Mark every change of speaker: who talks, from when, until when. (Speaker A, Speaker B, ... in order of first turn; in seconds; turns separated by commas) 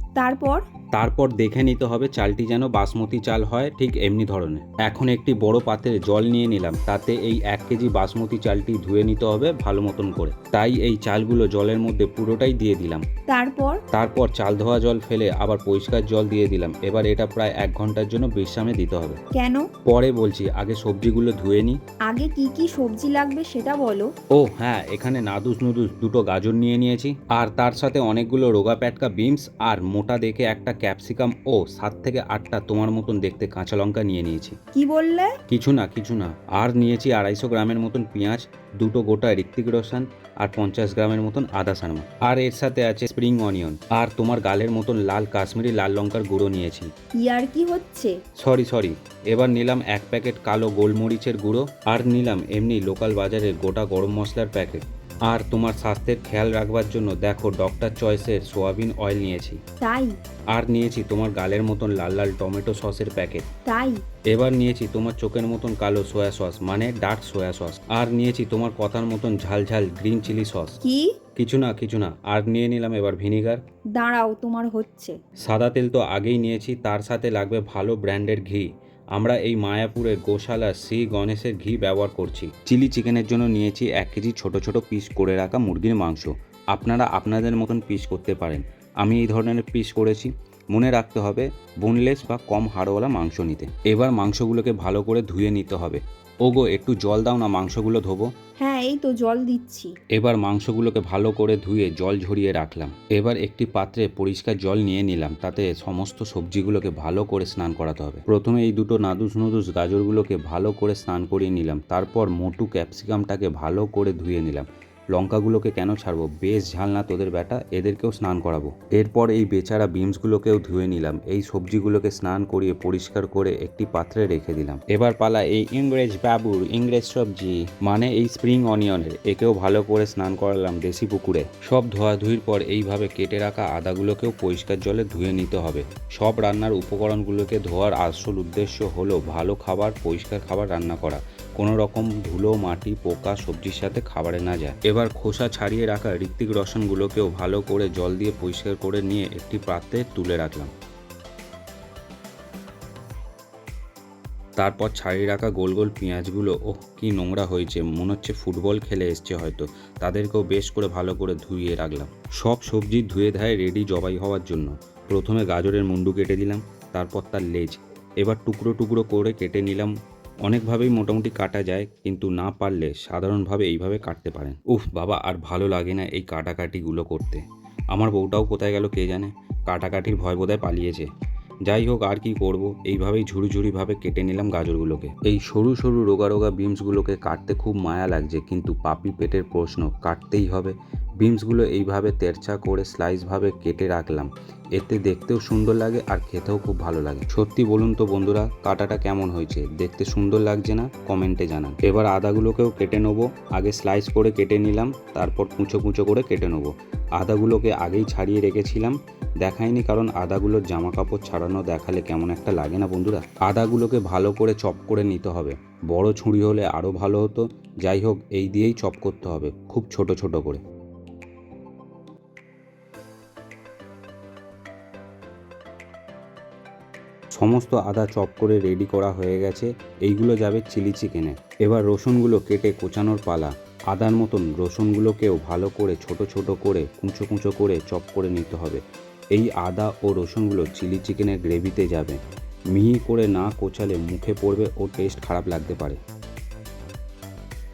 Speaker A: 0.2-0.6, Speaker B: 0.9-13.0, Speaker A: 13.3-13.8, Speaker B: 13.9-19.2, Speaker A: 19.4-19.7, Speaker B: 19.9-21.8, Speaker A: 22.1-24.1, Speaker B: 24.3-34.6, Speaker A: 34.7-35.3, Speaker B: 35.5-46.9, Speaker A: 47.2-48.1, Speaker B: 48.4-59.6, Speaker A: 59.8-60.1, Speaker B: 60.5-63.5, Speaker A: 63.7-64.0, Speaker B: 64.3-70.8, Speaker A: 70.8-71.1, Speaker B: 71.4-73.6, Speaker A: 74.0-75.2, Speaker B: 75.5-98.3, Speaker A: 98.6-99.9, Speaker B: 100.1-150.7, Speaker B: 154.6-169.9, Speaker B: 170.4-181.1, Speaker B: 181.7-220.6, Speaker B: 227.3-238.8, Speaker B: 239.3-242.2, Speaker B: 242.7-246.0